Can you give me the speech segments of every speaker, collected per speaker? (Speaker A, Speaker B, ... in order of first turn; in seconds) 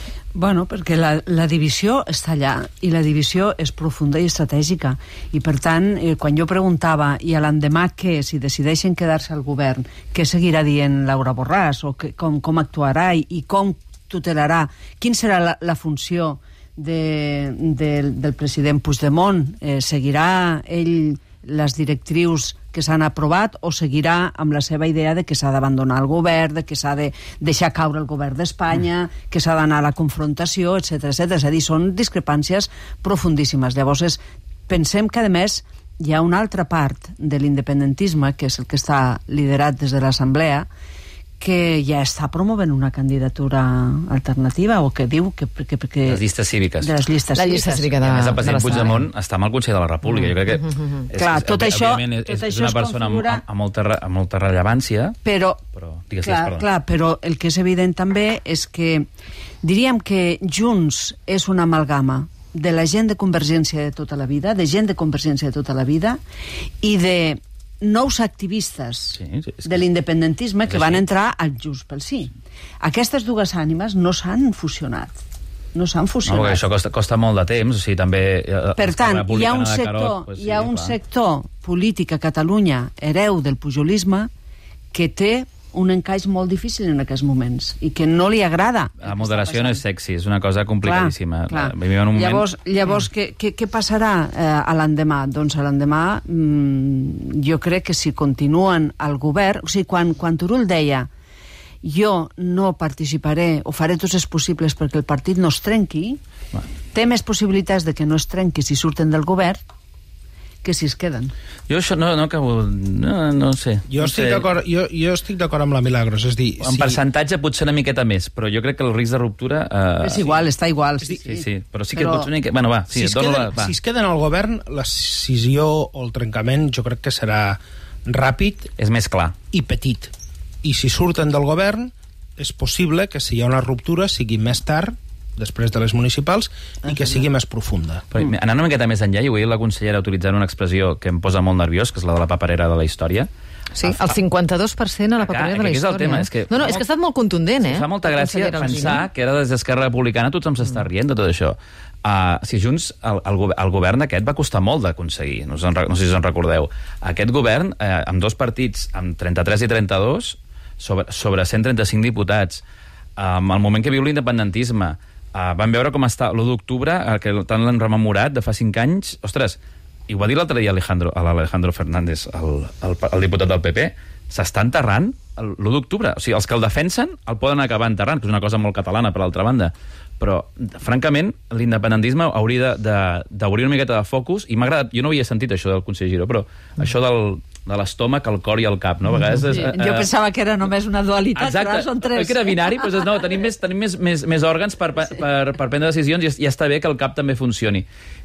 Speaker A: 0.3-40.7, 41.4-46.2, 46.8-48.0, 51.2-53.4, 55.2-55.6, 56.2-59.1, 59.6-66.2, 66.8-75.2, 75.7-76.6, 78.8-84.3, 84.9-89.8, 90.8-101.1, 101.8-106.2, 106.9-109.6, 110.6-111.3, 120.0-121.4, 121.9-122.3, 189.5-193.1
Speaker B: 46.1-47.0, 48.0-55.2, 55.8-56.7, 69.1-69.8, 70.7-71.0, 76.2-81.0, 89.0-92.5, 111.7-114.5, 116.6-120.4, 121.2-123.8, 128.8-129.4, 138.1-143.3, 143.8-144.2, 145.2-146.8, 147.6-162.6, 163.2-190.1, 191.4-197.9
Speaker C: 47.4-49.1, 50.2-50.8, 143.8-149.1
Speaker D: 113.9-117.0, 122.9-128.7, 129.5-130.1, 130.6-138.1